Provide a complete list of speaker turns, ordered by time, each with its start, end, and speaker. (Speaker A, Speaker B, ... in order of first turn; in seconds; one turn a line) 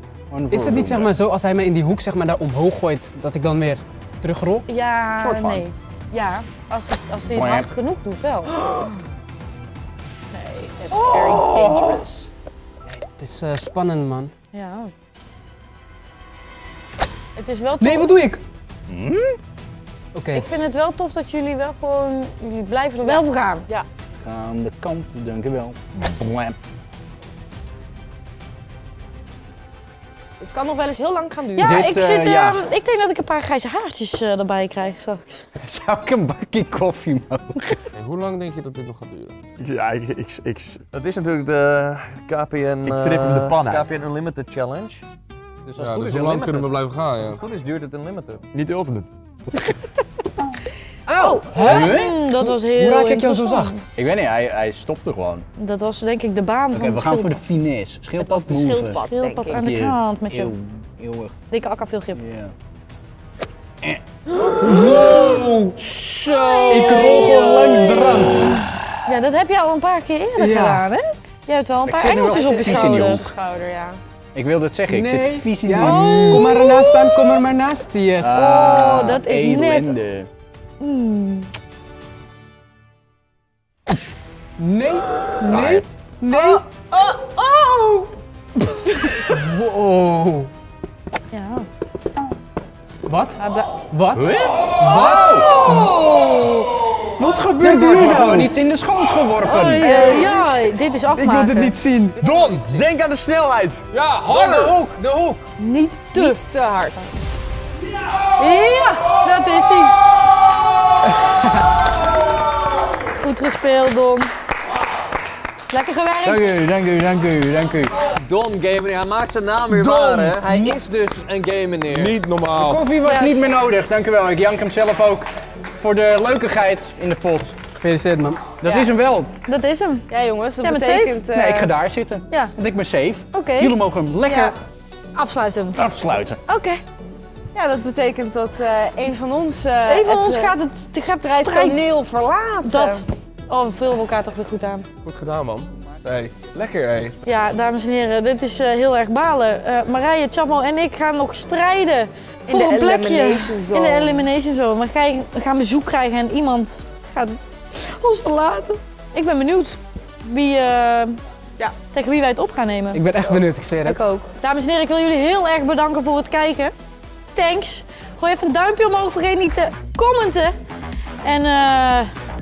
Speaker A: 0.3-1.1
Speaker B: 0.5-4.7
Speaker C: 4.7-8.8
Speaker A: 5.2-5.7
Speaker A: 7.3-7.7
Speaker C: 10.3-11.0
Speaker D: 10.8-12.3
Speaker A: 10.9-12.0
Speaker B: 13.0-14.3
Speaker C: 14.5-14.9
Speaker C: 17.4-18.1
Speaker B: 17.8-18.4
Speaker A: 18.9-19.4
Speaker B: 20.1-20.5
Speaker C: 20.3-23.6
Speaker D: 23.0-23.9
Speaker A: 24.2-26.5
Speaker D: 30.4-31.9
Speaker C: 31.6-35.5
Speaker A: 31.6-32.6
Speaker A: 35.6-37.9
Speaker E: 37.9-39.4
Speaker F: 39.6-44.0
Speaker G: 40.9-41.6
Speaker G: 42.6-45.0
Speaker G: 45.6-48.5
Speaker E: 45.8-47.4
Speaker F: 48.5-49.1
Speaker A: 51.1-52.2
Speaker C: 51.2-53.8
Speaker B: 51.5-53.9
Speaker A: 53.9-55.5
Speaker C: 55.6-57.5
Speaker A: 56.7-61.3
Speaker D: 58.2-59.6
Speaker C: 58.9-60.5
Speaker C: 61.5-62.2
Speaker A: 62.1-62.5
Speaker D: 64.4-65.3
Speaker A: 64.6-68.8
Speaker B: 64.7-65.8
Speaker D: 66.0-68.0
Speaker B: 66.7-68.6
Speaker C: 67.0-68.1
Speaker C: 69.0-73.3
Speaker B: 70.3-70.9
Speaker A: 71.8-73.3
Speaker D: 72.1-74.0
Speaker A: 74.3-76.6
Speaker B: 74.9-78.7
Speaker C: 75.7-77.3
Speaker A: 78.2-80.3
Speaker C: 78.3-80.0
Speaker C: 80.8-81.5
Speaker B: 84.6-86.6
Speaker A: 85.5-85.9
Speaker D: 86.3-88.1
Speaker B: 89.3-90.5
Speaker C: 91.3-91.7
Speaker B: 93.0-96.0
Speaker C: 93.4-93.8
Speaker A: 94.1-95.5
Speaker C: 95.2-96.7
Speaker B: 97.2-98.5
Speaker A: 97.6-100.2
Speaker C: 99.4-101.7
Speaker D: 99.8-100.4
Speaker B: 101.1-102.2
Speaker F: 102.2-103.9
Speaker D: 102.2-102.7
Speaker E: 103.9-104.8
Speaker D: 104.5-105.0
Speaker B: 104.9-105.4
Speaker C: 105.6-106.4
Speaker D: 106.1-107.1
Speaker C: 108.4-110.0
Speaker C: 113.1-114.3
Speaker C: 115.7-116.5
Speaker A: 116.2-118.0
Speaker G: 118.1-122.2
Speaker E: 119.7-120.4
Speaker E: 121.9-122.8
Speaker A: 122.5-127.5
Speaker C: 123.0-123.5
Speaker B: 127.8-128.6
Speaker A: 128.6-129.3
Speaker D: 128.6-128.9
Speaker C: 129.5-130.1
Speaker D: 130.1-131.7
Speaker C: 130.6-131.2
Speaker A: 131.3-134.6
Speaker C: 133.3-133.7
Speaker D: 134.2-134.5
Speaker C: 135.1-135.9
Speaker A: 135.8-136.4
Speaker C: 136.5-136.8
Speaker D: 137.5-140.6
Speaker C: 139.9-141.9
Speaker D: 141.2-143.0
Speaker C: 142.6-144.8
Speaker E: 145.0-147.2
Speaker C: 147.2-161.2
Speaker D: 152.5-154.3
Speaker C: 161.9-163.1
Speaker B: 162.9-164.0
Speaker C: 163.8-166.7
Speaker C: 167.3-170.5
Speaker C: 171.2-172.1